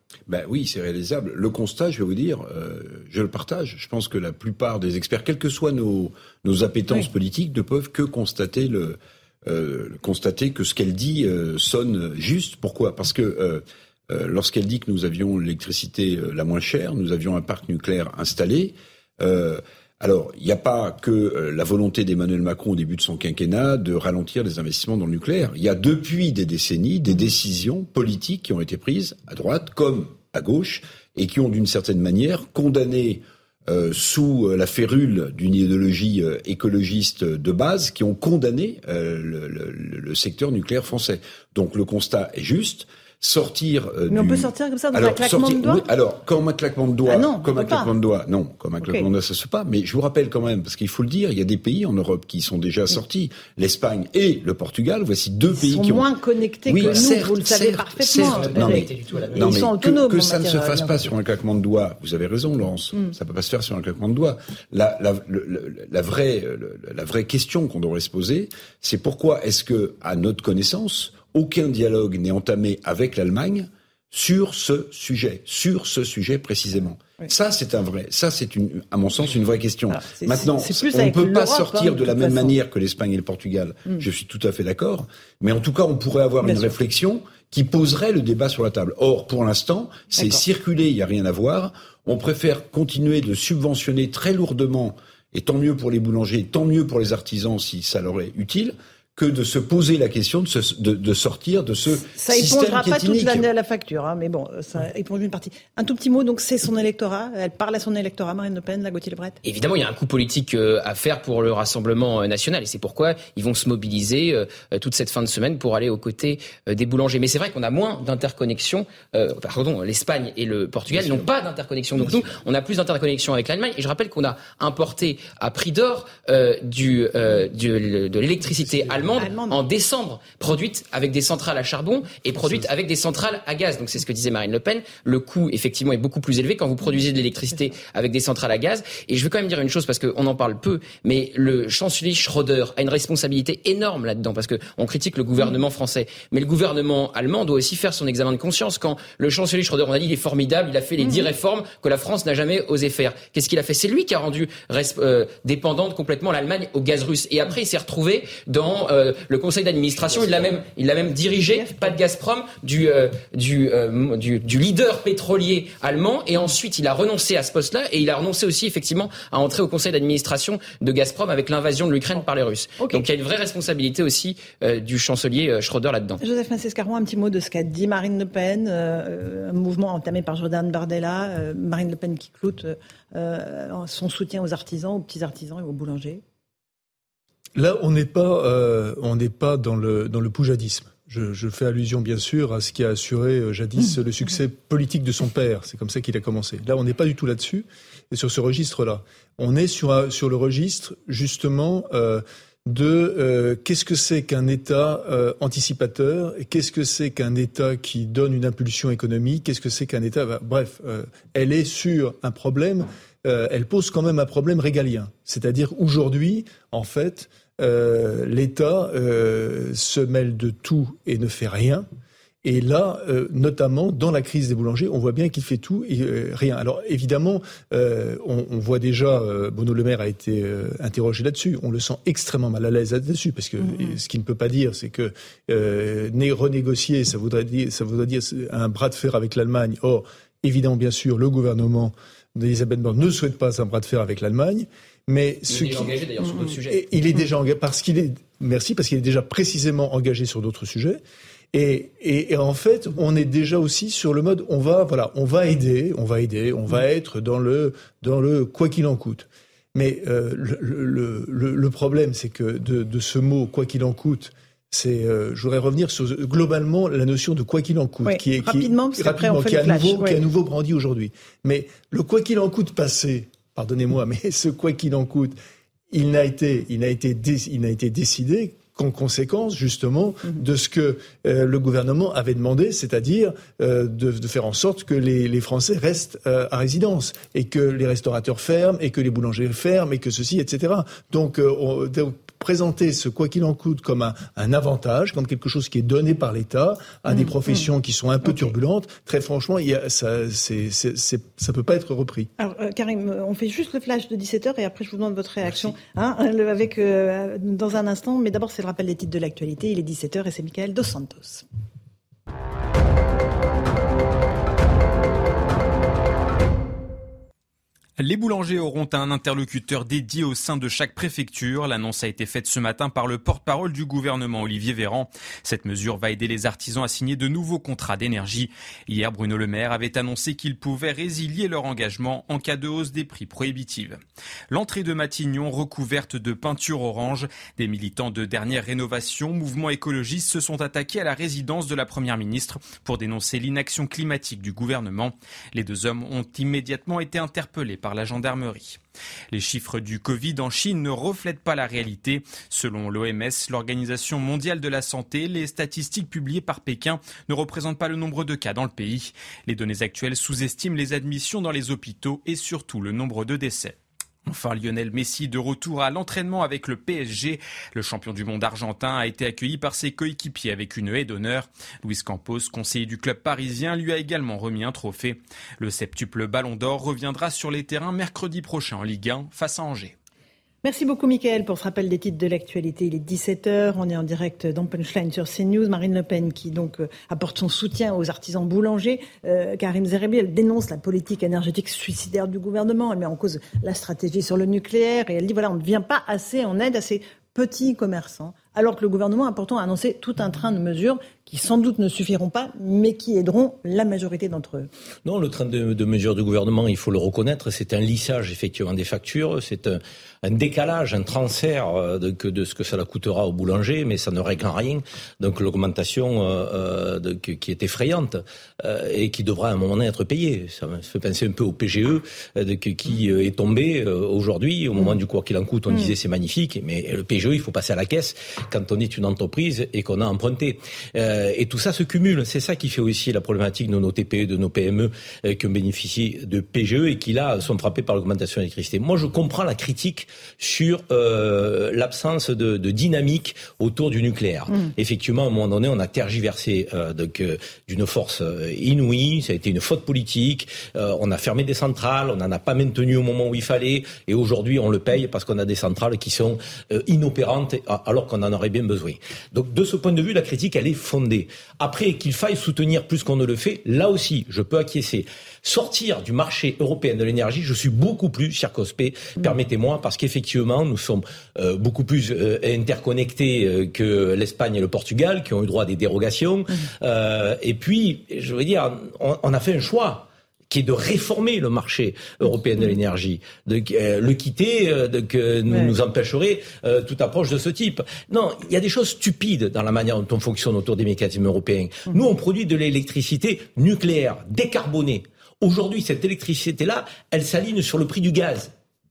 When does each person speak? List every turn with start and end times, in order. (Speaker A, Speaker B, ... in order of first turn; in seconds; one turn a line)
Speaker A: 0.3-56.1
Speaker B: 44.1-45.8
Speaker B: 47.0-47.9
Speaker B: 55.6-61.1
Speaker A: 56.6-103.5
Speaker C: 58.2-59.5
Speaker B: 79.9-82.6
Speaker B: 86.4-86.7
Speaker B: 102.1-109.4
Speaker C: 109.4-176.2
Speaker A: 120.9-121.3
Speaker A: 122.0-122.2
Speaker B: 129.2-129.6
Speaker B: 151.0-151.3
Speaker B: 161.4-161.9
Speaker B: 172.8-173.1
Speaker B: 176.2-186.2
Speaker D: 187.6-221.9
Speaker D: 222.4-251.0
Speaker B: 233.6-234.0
Speaker C: 245.5-246.9
Speaker D: 251.5-275.3
Speaker B: 268.1-270.2
Speaker D: 275.9-302.3
Speaker B: 297.1-297.7
Speaker B: 302.4-311.4
Speaker E: 318.0-348.8
Speaker E: 349.3-379.9
Speaker B: 380.6-404.7
Speaker F: 405.0-498.5
Speaker B: 485.5-485.7